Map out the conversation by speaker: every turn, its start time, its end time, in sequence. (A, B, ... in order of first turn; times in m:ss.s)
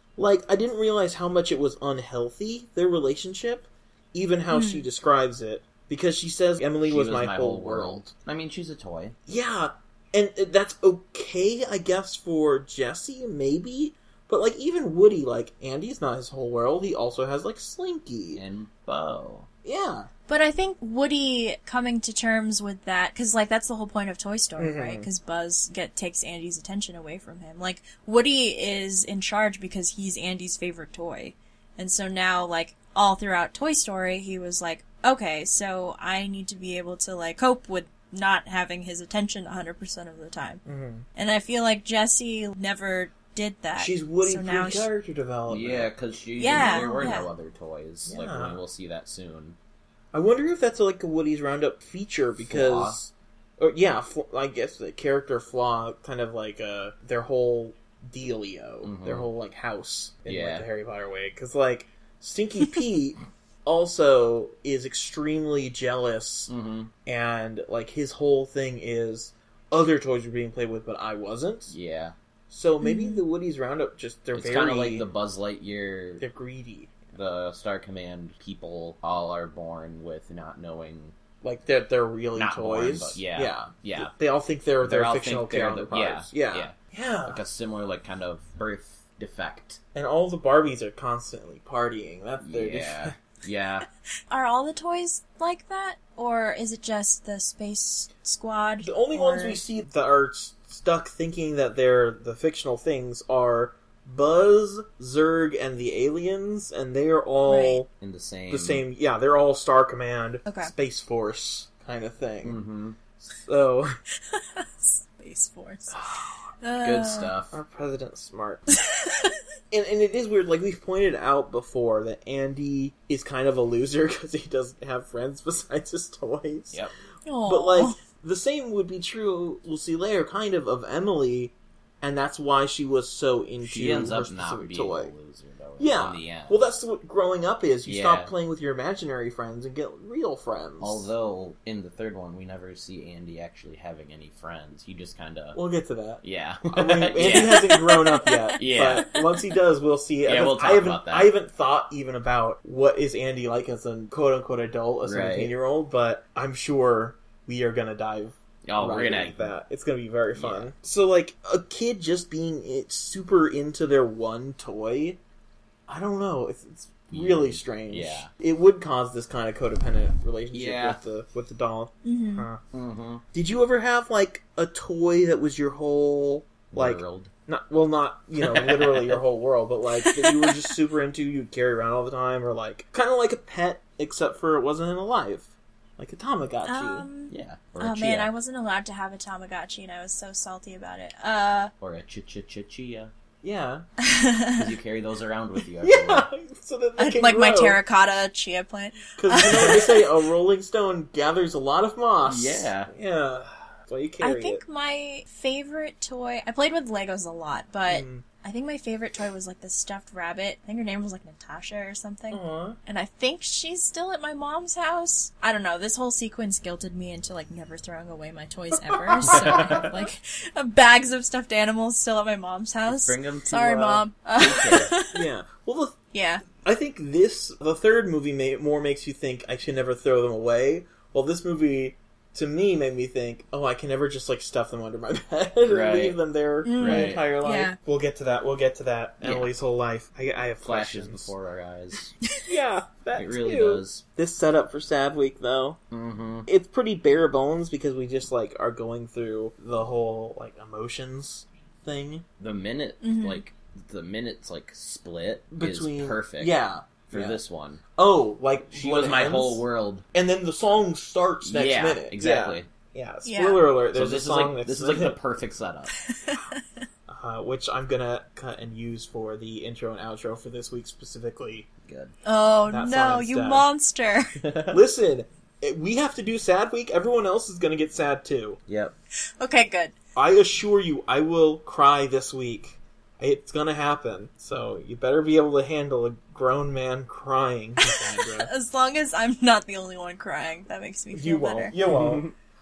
0:00.2-0:08.0 A
0:04.5-0:04.9 B
0:06.8-0:09.2 C
0:09.3-0:18.4 A
0:18.3-0:19.5 C
0:19.6-0:20.1 A
0:20.3-0:40.6 B
0:24.6-0:25.1 A
0:40.6-0:41.1 A
0:41.2-0:44.9 B
0:43.8-0:45.9 A
0:45.5-0:49.6 C
0:46.4-0:47.3 B
0:46.4-0:47.3 A
0:48.1-0:48.6 A
0:50.1-1:06.5 A
0:52.4-0:53.0 C
0:58.8-0:59.3 C
1:00.3-1:00.7 C
1:06.5-1:06.9 C
1:07.1-1:11.8 A
1:11.7-1:12.2 C
1:12.5-1:15.1 A
1:12.8-1:13.2 B
1:14.4-1:16.2 C
1:16.2-1:17.0 A
1:17.1-1:21.2 C
1:21.4-1:27.4 A
1:22.4-1:24.1 C
1:24.8-1:29.8 C
1:30.0-1:33.2 A
1:32.4-1:33.9 C
1:34.3-1:39.6 B
1:38.8-1:47.9 A
1:47.5-1:47.8 B
1:48.0-1:48.9 C
1:48.5-1:52.6 A
1:50.5-1:50.7 B
1:52.4-1:53.0 C
1:53.3-1:53.9 A
1:54.3-1:56.0 B
1:55.9-1:56.3 A
1:56.6-1:57.3 B
1:56.8-1:57.6 C
1:57.5-1:58.7 A
1:58.7-1:59.4 B
1:59.7-2:06.8 A
2:07.2-2:08.0 B
2:07.4-2:15.1 A
2:13.6-2:16.7 C
2:15.8-2:21.1 A
2:17.9-2:18.3 C
2:20.8-2:25.6 C
2:25.5-2:45.2 A
2:26.2-2:29.2 C
2:30.2-2:31.3 C
2:35.0-2:35.5 C
2:38.6-2:39.5 C
2:40.4-2:40.7 C
2:45.9-2:52.6 A
2:47.1-2:48.3 C
2:50.5-2:51.0 C
2:52.0-2:52.5 B
2:52.7-2:53.2 C
2:53.3-3:07.1 A
2:56.7-2:57.3 C
2:58.4-2:59.2 C
3:00.1-3:00.6 B
3:06.6-3:11.7 B
3:07.3-3:08.3 C
3:11.8-3:13.1 C
3:13.4-3:13.9 A
3:14.0-3:14.7 B
3:14.6-3:16.3 C
3:15.8-3:17.8 A
3:17.0-3:20.1 B
3:19.2-3:24.6 A
3:22.2-3:22.9 C
3:24.2-3:45.2 B
3:27.9-3:28.2 A
3:32.3-3:32.8 A
3:38.8-3:39.8 A
3:39.3-3:39.8 C
3:42.9-3:44.9 C
3:45.1-3:46.0 A
3:46.1-3:46.4 B
3:46.6-4:01.3 A
3:55.6-3:56.2 C
3:56.6-3:57.8 B
3:56.8-3:57.2 C
3:59.2-3:59.5 C
4:00.6-4:02.2 C
4:02.4-4:05.8 A
4:03.1-4:04.0 C
4:05.9-4:06.5 C
4:06.5-4:12.2 A
4:12.4-4:17.8 C
4:13.0-4:13.4 B
4:15.5-4:17.4 A
4:18.0-4:25.2 A
4:18.7-4:20.1 C
4:21.4-4:22.7 C
4:23.2-4:23.7 B
4:23.9-4:25.9 C
4:26.1-4:26.8 B
4:27.1-4:31.7 A
4:31.8-4:32.1 C
4:32.2-4:34.4 B
4:32.7-4:33.7 A
4:34.4-4:34.8 C
4:34.7-4:38.6 A
4:38.7-4:39.0 C
4:39.4-4:39.9 B
4:40.2-4:48.5 A
4:47.8-4:51.8 B
4:51.1-4:52.3 A
4:51.9-4:52.3 C